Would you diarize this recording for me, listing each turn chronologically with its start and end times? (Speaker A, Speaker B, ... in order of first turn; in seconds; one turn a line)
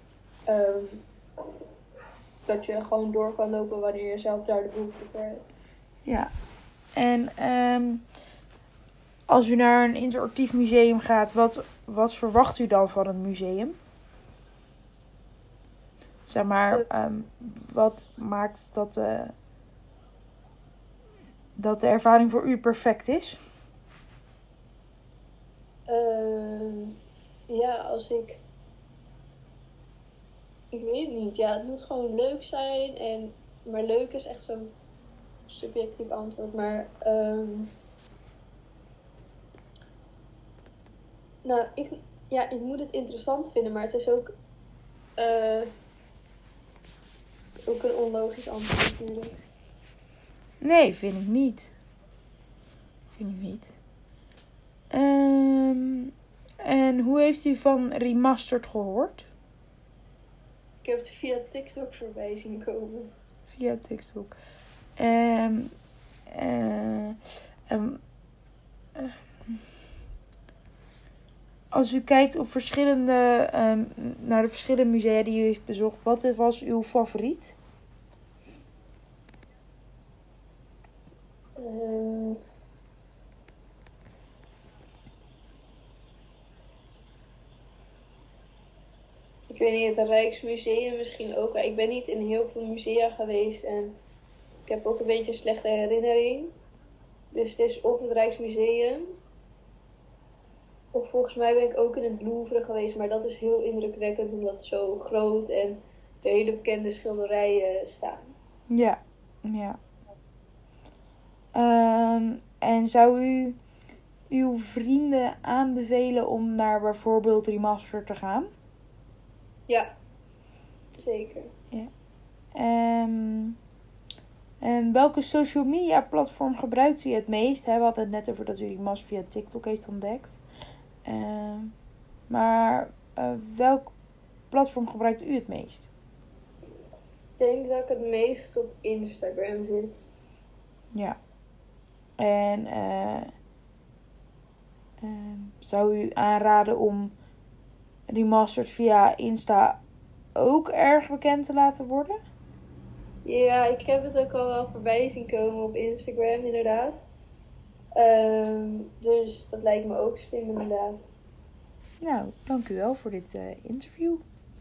Speaker A: 0.5-1.1
Speaker A: 2.5-5.5
Speaker B: 6.0-6.3
Speaker B: 7.0-8.0
Speaker B: 9.3-13.8
Speaker B: 16.3-19.3
Speaker B: 21.6-23.4
Speaker A: 25.9-27.0
Speaker A: 27.5-28.4
Speaker A: 30.7-34.8
Speaker A: 35.5-37.7
Speaker A: 41.4-44.3
Speaker A: 45.2-45.7
Speaker A: 47.7-49.3
Speaker B: 50.6-51.7
Speaker B: 53.2-53.7
Speaker B: 54.9-56.1
Speaker B: 56.6-59.3
Speaker A: 60.8-63.1
Speaker B: 63.5-64.3
Speaker B: 65.0-65.7
Speaker B: 66.3-67.2
Speaker B: 67.7-68.0
Speaker B: 71.7-77.6
Speaker A: 81.6-82.4
Speaker A: 89.5-94.0
Speaker A: 94.7-96.5
Speaker A: 97.3-99.1
Speaker A: 100.9-108.2
Speaker B: 108.7-109.8
Speaker B: 111.5-113.6
Speaker B: 114.3-118.5
Speaker A: 121.0-121.5
Speaker B: 122.5-123.6
Speaker B: 124.6-130.4
Speaker B: 131.1-131.7
Speaker B: 132.3-133.9
Speaker B: 134.5-135.9
Speaker A: 137.4-139.9
Speaker B: 142.2-143.3
Speaker B: 145.0-147.2
Speaker B: 148.1-149.8
Speaker B: 150.3-152.2
Speaker A: 153.2-157.0
Speaker A: 158.0-161.1
Speaker B: 162.0-164.2